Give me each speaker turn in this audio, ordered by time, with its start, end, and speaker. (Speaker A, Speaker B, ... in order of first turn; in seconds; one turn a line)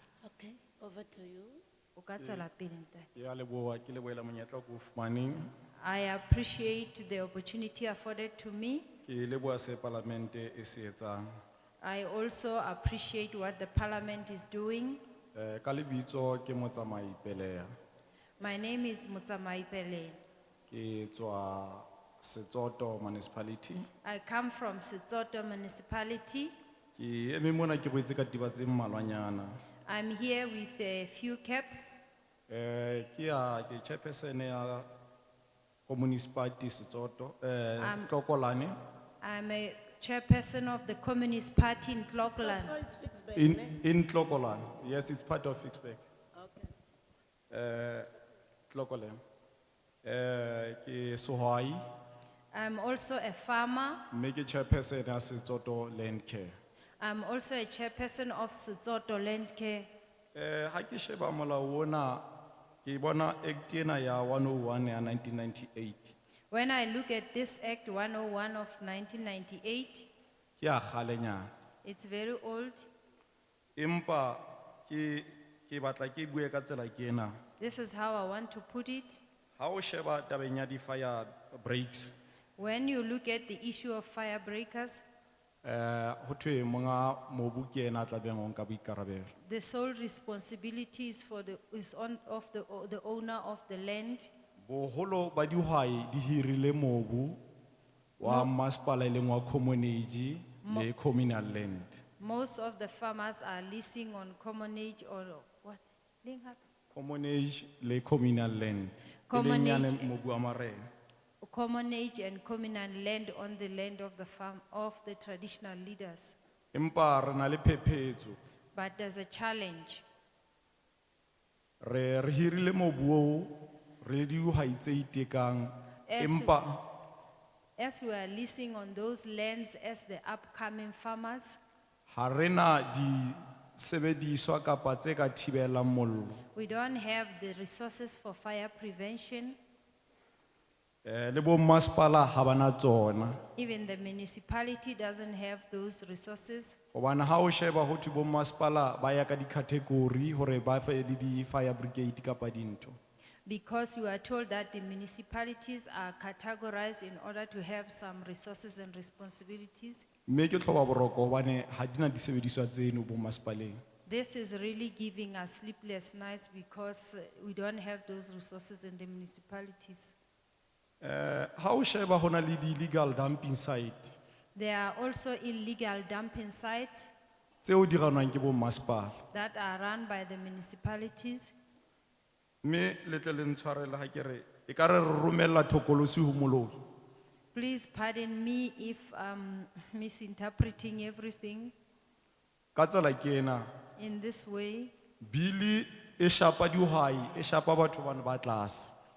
Speaker A: 0.2-1.6
Speaker B: 1.9-3.1
Speaker C: 2.2-2.5
Speaker C: 3.1-5.5
Speaker B: 5.8-8.9
Speaker C: 9.1-11.2
Speaker B: 11.8-15.0
Speaker C: 15.3-17.7
Speaker B: 18.4-20.2
Speaker C: 20.7-23.9
Speaker B: 24.0-26.5
Speaker C: 27.0-29.5
Speaker B: 29.9-32.0
Speaker C: 32.5-34.9
Speaker C: 35.9-38.7
Speaker B: 37.8-38.1
Speaker B: 39.2-42.8
Speaker A: 42.1-43.8
Speaker C: 43.4-46.0
Speaker A: 46.3-46.7
Speaker C: 47.5-48.1
Speaker C: 48.7-49.2
Speaker C: 50.0-51.9
Speaker B: 52.5-54.0
Speaker C: 54.1-56.5
Speaker B: 57.0-59.9
Speaker C: 60.3-62.3
Speaker C: 62.8-66.1
Speaker B: 66.5-70.1
Speaker C: 70.6-71.5
Speaker B: 71.8-72.9
Speaker C: 73.8-77.3
Speaker B: 77.6-79.2
Speaker C: 79.6-82.1
Speaker B: 82.6-85.0
Speaker C: 85.6-89.3
Speaker B: 89.4-94.3
Speaker C: 94.6-97.4
Speaker C: 98.2-102.0
Speaker B: 98.2-98.5
Speaker B: 100.6-100.9
Speaker B: 102.2-106.6
Speaker C: 106.9-110.8
Speaker B: 109.3-110.1
Speaker B: 111.4-116.3
Speaker C: 116.7-118.4
Speaker B: 118.7-120.0
Speaker C: 121.8-126.8
Speaker B: 126.1-126.6
Speaker B: 127.8-131.6
Speaker C: 132.1-136.4
Speaker B: 136.5-139.6
Speaker C: 141.0-143.4
Speaker B: 143.6-146.8
Speaker C: 146.9-153.0
Speaker B: 153.4-160.0
Speaker C: 160.3-163.8
Speaker B: 164.1-170.1
Speaker C: 171.0-174.2
Speaker B: 174.5-177.1
Speaker C: 177.6-179.2
Speaker B: 179.3-181.5
Speaker C: 182.6-186.8
Speaker B: 187.5-191.7
Speaker C: 192.7-193.7
Speaker B: 194.0-194.9
Speaker C: 195.2-198.9